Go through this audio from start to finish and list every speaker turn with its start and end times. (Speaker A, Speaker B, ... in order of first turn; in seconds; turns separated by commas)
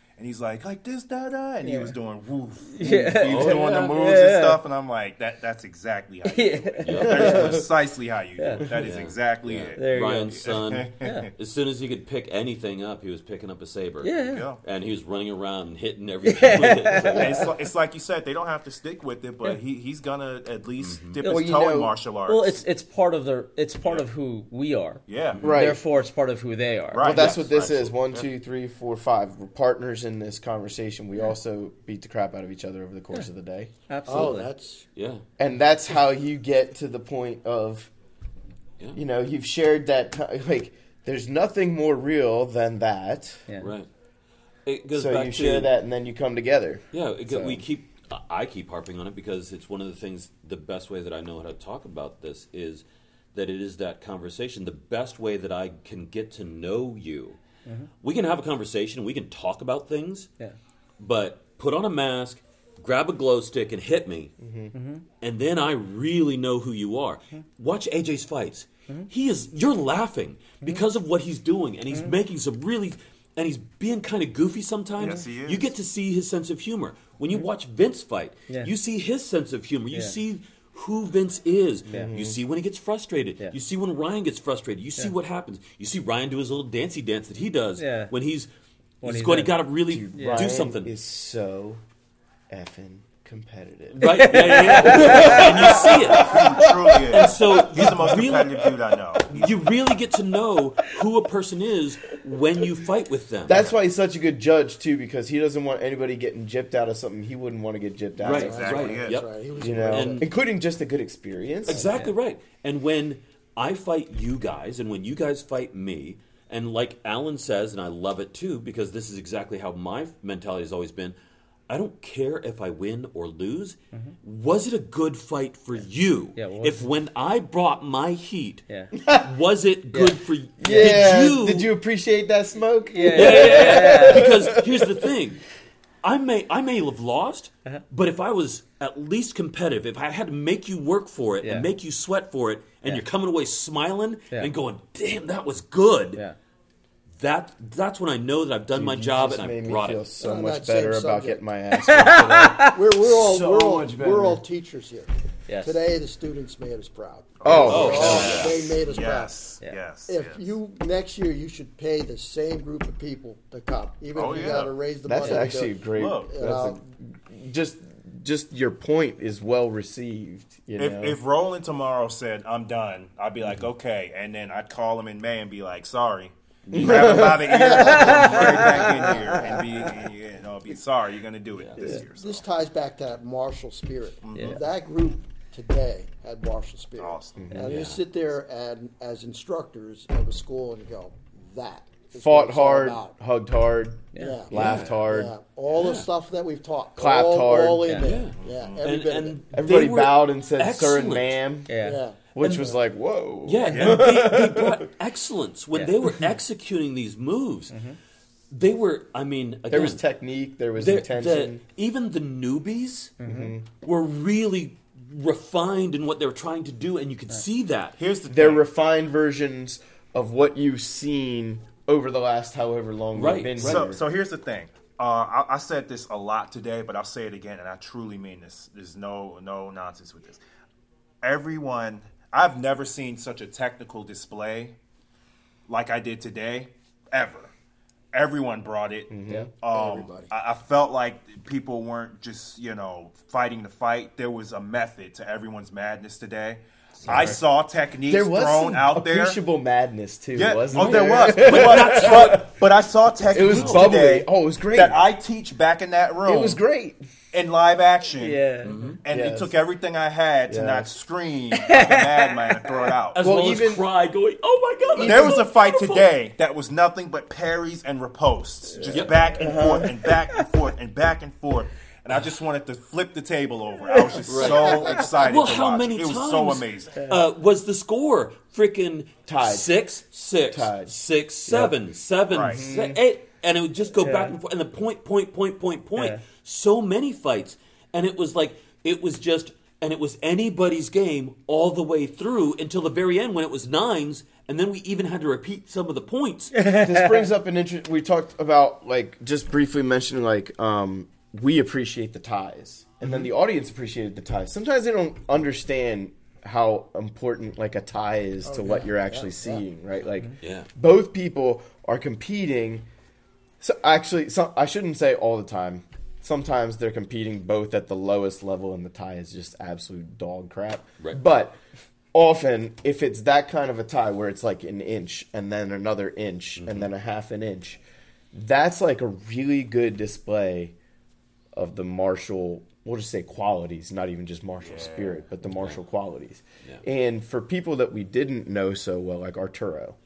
Speaker A: 0.2-11.3, Speaker B: 1.6-1.9, Speaker B: 2.7-4.6, Speaker C: 3.1-4.0, Speaker B: 6.3-7.6, Speaker C: 6.8-7.6, Speaker B: 8.4-8.7, Speaker C: 8.7-17.5, Speaker B: 9.8-10.4, Speaker B: 11.0-11.3, Speaker B: 14.0-14.5, Speaker A: 14.3-14.6, Speaker B: 16.3-17.4, Speaker A: 17.1-22.6, Speaker C: 20.8-21.2, Speaker D: 21.2-21.9, Speaker B: 22.3-27.0, Speaker A: 25.1-25.4, Speaker D: 25.4-25.8, Speaker A: 26.9-27.7, Speaker D: 27.0-34.3, Speaker C: 27.1-28.2, Speaker B: 33.9-34.5, Speaker E: 34.1-34.9, Speaker C: 35.0-35.2, Speaker D: 35.4-37.9, Speaker D: 39.0-43.5, Speaker C: 43.6-43.9, Speaker C: 44.7-45.7, Speaker D: 44.9-47.6, Speaker C: 46.9-57.4, Speaker C: 58.0-60.3, Speaker C: 61.0-64.3, Speaker D: 64.4-64.7, Speaker B: 64.7-65.0, Speaker C: 65.2-88.5, Speaker A: 75.0-75.7, Speaker D: 81.9-82.4, Speaker B: 87.8-88.1, Speaker B: 89.0-89.5, Speaker C: 89.0-91.0, Speaker D: 89.9-91.8, Speaker B: 90.1-90.6, Speaker D: 92.5-97.0, Speaker C: 94.0-98.7, Speaker B: 94.0-95.8, Speaker A: 95.4-99.7, Speaker D: 97.8-98.4, Speaker C: 99.3-103.7, Speaker D: 103.5-108.9, Speaker C: 108.2-110.3, Speaker E: 108.3-110.3, Speaker A: 108.3-109.2, Speaker D: 109.6-111.9, Speaker C: 111.7-121.2, Speaker C: 121.7-131.7, Speaker B: 126.4-126.8, Speaker D: 130.6-135.1, Speaker B: 132.9-134.3, Speaker C: 133.1-135.4, Speaker C: 136.0-146.2, Speaker B: 141.4-141.7, Speaker C: 147.2-150.0, Speaker D: 148.7-154.4, Speaker E: 150.2-151.4, Speaker B: 151.8-152.8, Speaker E: 152.6-155.1, Speaker B: 155.5-155.7, Speaker E: 155.6-159.3, Speaker A: 157.4-160.5, Speaker D: 157.4-158.7, Speaker C: 157.7-158.7, Speaker E: 160.1-166.8, Speaker A: 164.1-164.8, Speaker D: 165.0-171.2, Speaker A: 165.3-166.3, Speaker A: 170.8-182.4, Speaker D: 176.7-178.0, Speaker B: 177.5-179.0, Speaker E: 178.1-178.8, Speaker E: 179.4-179.7, Speaker E: 181.8-193.1, Speaker A: 184.2-184.6, Speaker A: 187.0-187.6, Speaker D: 187.4-187.7, Speaker C: 187.6-188.0, Speaker D: 192.2-195.3, Speaker B: 194.1-194.4, Speaker E: 194.2-199.5, Speaker C: 194.5-195.0, Speaker C: 195.7-196.1, Speaker D: 197.0-197.9, Speaker B: 197.8-198.1, Speaker C: 198.0-201.4, Speaker A: 198.4-198.8, Speaker D: 199.5-201.8, Speaker B: 201.7-202.0, Speaker E: 201.8-202.7, Speaker D: 202.3-204.8, Speaker C: 203.5-207.8, Speaker A: 203.7-204.0, Speaker C: 208.5-210.0, Speaker D: 209.7-211.6, Speaker C: 210.8-213.2, Speaker B: 213.2-213.5, Speaker D: 213.2-213.7, Speaker C: 213.8-218.0, Speaker A: 218.0-218.7, Speaker D: 218.3-224.0, Speaker C: 223.1-223.9, Speaker A: 223.6-230.4, Speaker A: 231.2-234.8, Speaker A: 235.7-237.5, Speaker A: 238.1-249.4, Speaker D: 239.1-239.5, Speaker E: 239.7-240.3, Speaker D: 247.1-247.4, Speaker D: 248.1-252.5, Speaker A: 250.3-256.6, Speaker C: 250.7-252.5, Speaker D: 253.3-255.0, Speaker C: 253.3-254.0, Speaker D: 256.2-257.1, Speaker A: 257.3-263.2, Speaker B: 258.2-258.7, Speaker C: 258.6-259.0, Speaker D: 259.1-259.5, Speaker D: 260.5-260.9, Speaker B: 261.5-262.9, Speaker C: 263.1-266.1, Speaker D: 263.2-263.9, Speaker D: 265.0-265.4, Speaker A: 265.0-277.1, Speaker C: 268.9-269.4, Speaker D: 269.4-269.9, Speaker C: 274.3-296.6, Speaker D: 279.3-279.7, Speaker D: 280.5-280.9, Speaker A: 282.3-282.7, Speaker D: 282.5-283.0, Speaker B: 284.0-284.4, Speaker B: 296.5-297.3, Speaker D: 296.7-312.9, Speaker C: 303.0-303.3, Speaker E: 308.4-309.6, Speaker C: 310.4-310.7, Speaker D: 313.6-321.6, Speaker D: 322.1-327.8, Speaker C: 326.6-326.9, Speaker D: 328.3-330.8, Speaker D: 331.5-340.0, Speaker A: 334.6-335.2